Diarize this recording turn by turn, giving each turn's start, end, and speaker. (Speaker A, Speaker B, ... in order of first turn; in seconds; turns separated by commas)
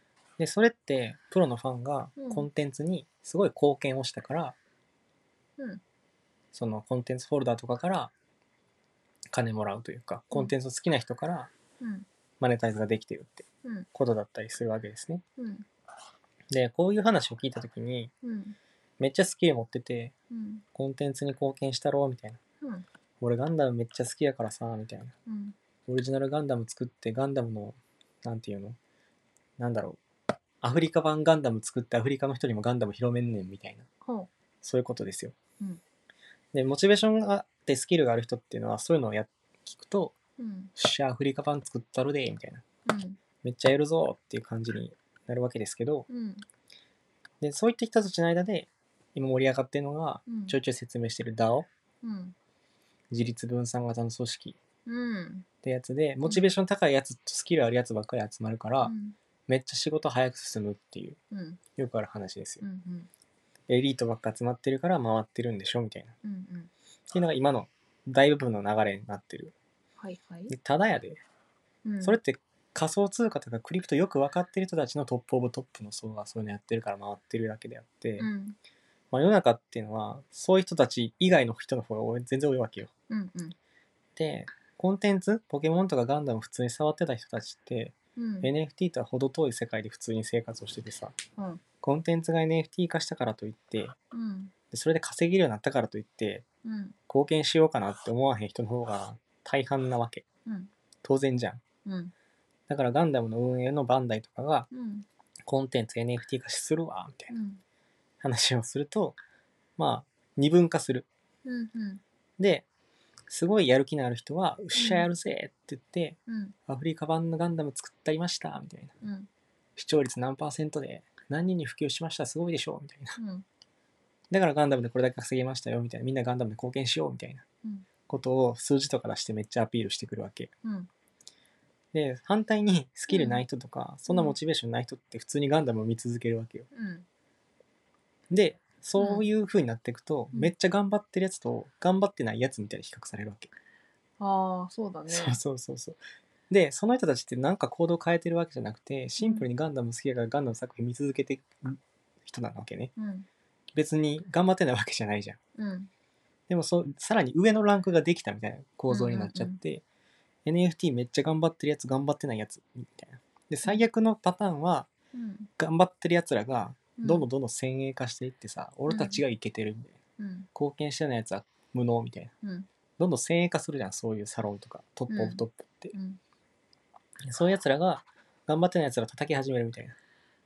Speaker A: 0.4-4.6, Speaker B: 2.2-2.5, Speaker A: 6.5-8.1, Speaker A: 9.3-11.5, Speaker B: 11.8-12.1, Speaker A: 12.4-15.2, Speaker B: 15.4-15.7, Speaker A: 16.5-18.1, Speaker B: 18.2-18.6, Speaker A: 19.0-20.1, Speaker B: 20.3-20.6, Speaker A: 20.8-22.4, Speaker A: 23.2-25.1, Speaker B: 25.3-25.6, Speaker A: 25.9-28.8, Speaker A: 29.6-30.0, Speaker A: 30.6-33.9, Speaker A: 34.6-35.4, Speaker A: 36.5-40.1, Speaker B: 40.4-40.7, Speaker A: 40.8-42.6, Speaker B: 42.9-43.2, Speaker A: 43.4-46.1, Speaker B: 46.1-46.5, Speaker A: 47.4-51.7, Speaker B: 50.3-50.5, Speaker B: 52.0-52.4, Speaker A: 53.1-54.6, Speaker B: 54.9-55.5, Speaker A: 55.6-58.9, Speaker B: 58.8-59.2, Speaker A: 59.5-61.2, Speaker B: 61.3-61.6, Speaker A: 61.8-62.6, Speaker B: 62.6-63.1, Speaker A: 63.7-66.1, Speaker B: 66.2-66.7, Speaker A: 67.1-69.5, Speaker B: 70.0-70.5, Speaker A: 70.5-71.2, Speaker B: 71.8-72.2, Speaker A: 72.0-78.3, Speaker B: 78.2-78.6, Speaker A: 79.1-82.9, Speaker B: 83.1-83.6, Speaker A: 84.2-91.2, Speaker B: 88.2-88.5, Speaker B: 91.4-91.6, Speaker A: 91.8-94.0, Speaker B: 94.1-94.5, Speaker A: 94.7-96.5, Speaker B: 96.7-97.0, Speaker A: 97.1-100.2, Speaker A: 101.0-101.6, Speaker B: 101.8-102.1, Speaker A: 102.7-104.7, Speaker B: 104.7-105.1, Speaker A: 105.5-107.3, Speaker B: 107.3-107.6, Speaker A: 108.2-109.2, Speaker A: 109.8-111.1, Speaker B: 111.5-112.0, Speaker A: 112.4-112.7, Speaker A: 113.3-118.9, Speaker B: 114.8-115.1, Speaker B: 116.3-116.5, Speaker B: 119.0-119.3, Speaker A: 119.8-123.2, Speaker B: 123.2-123.5, Speaker A: 124.3-127.4, Speaker A: 128.1-130.5, Speaker B: 130.6-130.9, Speaker A: 131.9-136.7, Speaker B: 133.1-133.4, Speaker B: 134.1-134.3, Speaker B: 136.7-137.1, Speaker A: 138.3-143.5, Speaker B: 139.0-139.3, Speaker B: 144.2-145.4, Speaker A: 145.1-146.0, Speaker A: 146.5-152.9, Speaker B: 149.2-149.5, Speaker B: 153.0-153.3, Speaker A: 153.8-155.4, Speaker B: 155.6-155.9, Speaker A: 156.5-159.8, Speaker B: 158.9-159.6, Speaker A: 160.4-164.9, Speaker B: 165.1-165.5, Speaker A: 165.6-170.0, Speaker B: 167.0-167.3, Speaker B: 168.9-169.2, Speaker B: 170.2-170.5, Speaker A: 170.5-172.3, Speaker A: 173.0-175.9, Speaker B: 175.1-175.4, Speaker B: 175.9-176.2, Speaker A: 177.3-180.0